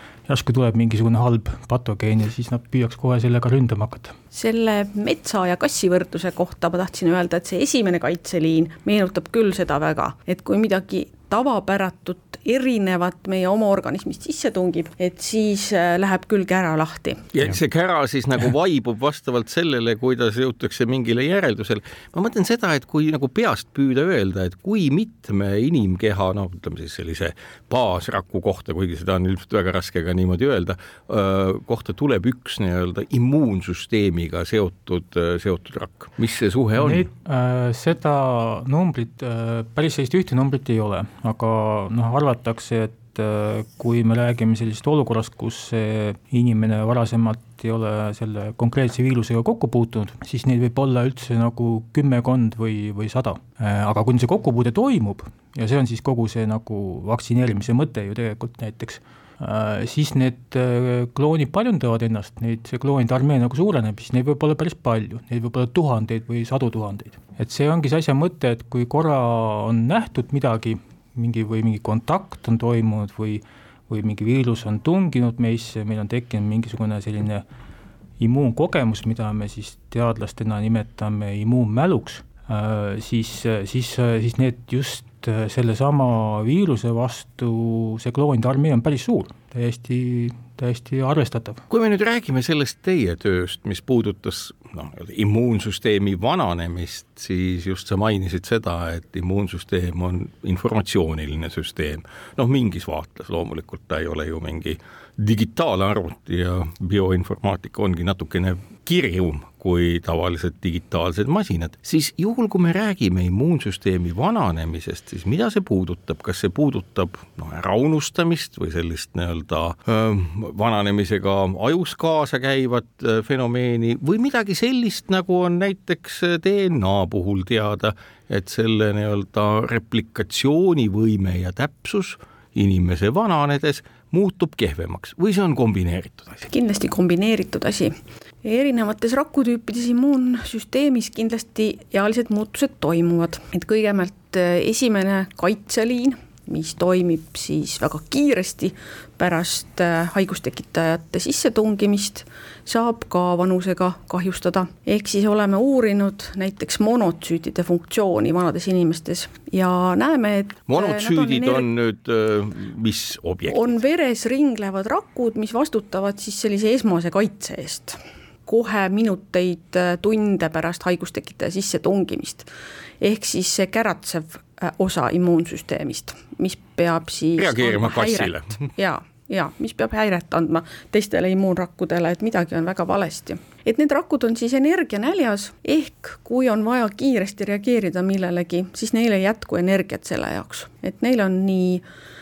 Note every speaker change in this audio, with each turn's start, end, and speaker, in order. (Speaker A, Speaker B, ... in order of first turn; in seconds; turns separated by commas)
Speaker A: 0.3-4.1, Speaker B: 4.3-17.3, Speaker C: 17.3-37.1, Speaker A: 36.8-77.4, Speaker A: 78.2-91.6, Speaker C: 91.7-136.5, Speaker B: 136.5-161.7, Speaker C: 160.7-163.7, Speaker B: 163.5-172.5, Speaker B: 173.0-191.8, Speaker C: 177.3-178.7